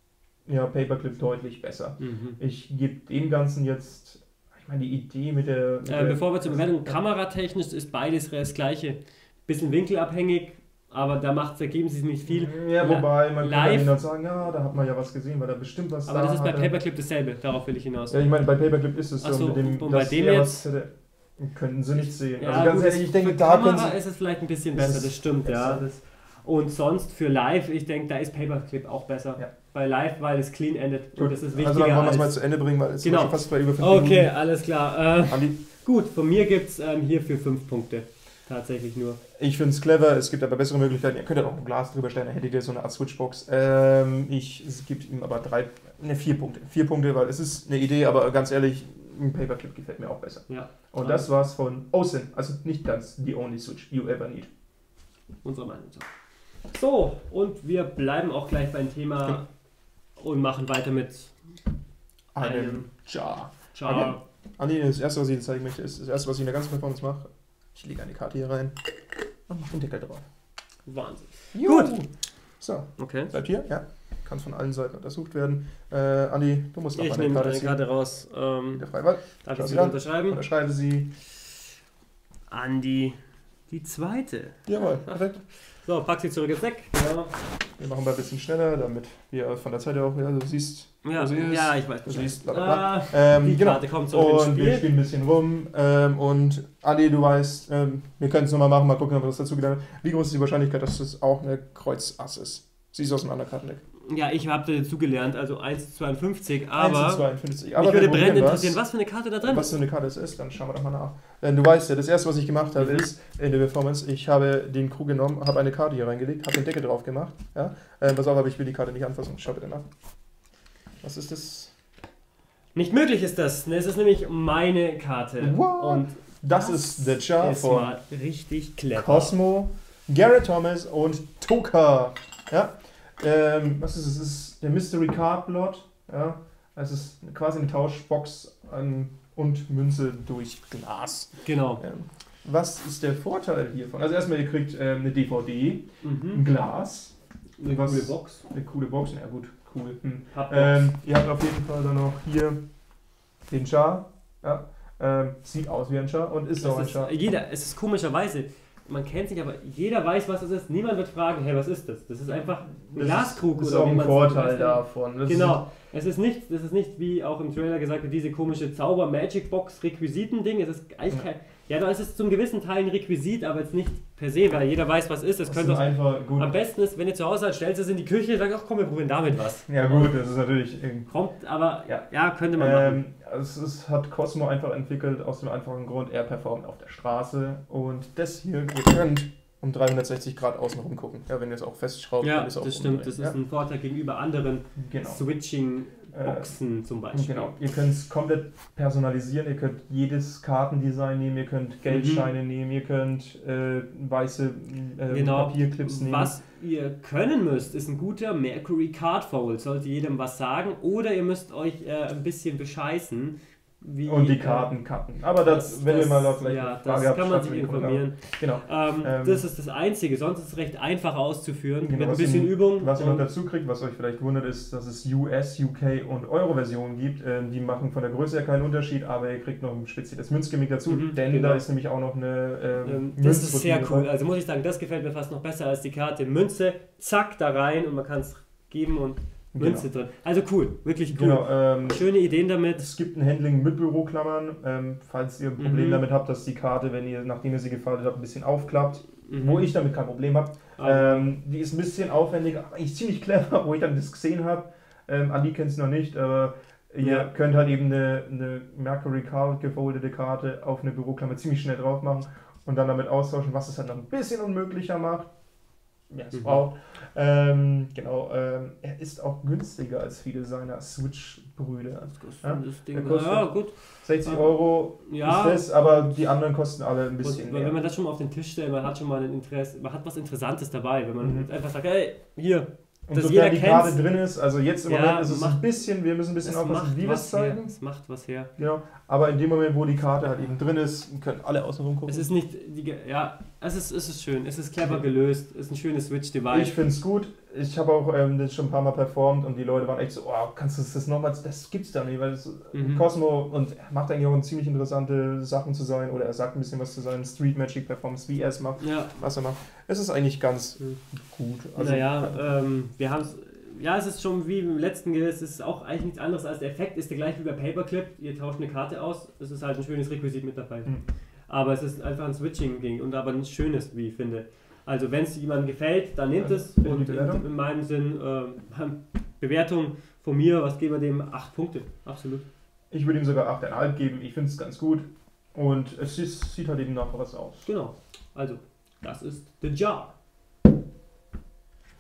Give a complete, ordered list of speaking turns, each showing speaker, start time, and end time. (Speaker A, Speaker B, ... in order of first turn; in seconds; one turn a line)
Speaker A: 0.5-7.0
Speaker B: 2.0-2.4
Speaker B: 5.9-13.9
Speaker A: 12.3-16.8
Speaker B: 16.1-18.3
Speaker A: 18.1-24.0
Speaker B: 19.2-20.6
Speaker B: 22.4-32.4
Speaker A: 24.7-25.9
Speaker A: 31.2-34.3
Speaker B: 33.0-39.2
Speaker A: 35.3-35.6
Speaker A: 39.4-54.5
Speaker B: 50.5-51.3
Speaker B: 55.4-56.1
Speaker B: 56.7-59.5
Speaker B: 60.2-61.4
Speaker A: 62.4-68.8
Speaker B: 62.4-62.9
Speaker B: 63.7-64.2
Speaker A: 69.5-70.2
Speaker B: 70.9-72.0
Speaker A: 71.5-72.1
Speaker A: 72.6-77.8
Speaker B: 73.0-73.3
Speaker B: 77.0-80.4
Speaker A: 78.7-81.1
Speaker B: 82.5-84.6
Speaker A: 84.7-85.4
Speaker B: 85.8-87.3
Speaker A: 87.8-103.8
Speaker B: 91.0-94.9
Speaker B: 104.1-109.8
Speaker A: 106.7-108.8
Speaker A: 109.4-119.9
Speaker B: 112.8-113.1
Speaker A: 121.0-121.7
Speaker B: 122.8-129.4
Speaker A: 125.4-127.9
Speaker A: 128.9-152.6
Speaker B: 141.4-141.8
Speaker B: 146.0-146.4
Speaker B: 147.6-148.4
Speaker B: 150.3-150.8
Speaker A: 153.5-157.1
Speaker B: 156.6-180.2
Speaker A: 162.9-165.6
Speaker A: 175.5-176.5
Speaker A: 179.7-181.1
Speaker B: 181.1-183.0
Speaker A: 181.9-193.4
Speaker B: 192.2-197.6
Speaker A: 194.8-195.2
Speaker A: 196.1-196.6
Speaker A: 197.1-206.4
Speaker B: 201.9-202.3
Speaker B: 205.1-214.8
Speaker A: 214.1-219.5
Speaker B: 215.3-223.3
Speaker A: 221.8-234.1
Speaker B: 230.9-231.7
Speaker B: 232.8-242.9
Speaker A: 239.6-239.9
Speaker A: 241.1-242.1
Speaker A: 242.8-265.3
Speaker B: 245.6-246.0
Speaker B: 249.3-249.7
Speaker B: 250.8-251.3
Speaker B: 257.0-257.3
Speaker A: 266.1-277.8
Speaker B: 266.3-266.6
Speaker B: 272.2-275.6
Speaker B: 277.2-284.1
Speaker A: 281.2-281.5
Speaker A: 283.1-287.7
Speaker B: 284.9-285.7
Speaker B: 286.4-288.5
Speaker A: 288.6-292.3
Speaker B: 292.1-296.8
Speaker A: 296.5-312.5
Speaker B: 302.7-303.1
Speaker B: 308.8-309.1
Speaker B: 311.8-320.9
Speaker B: 321.5-332.4
Speaker A: 326.4-327.5
Speaker A: 332.9-337.7
Speaker B: 337.6-340.1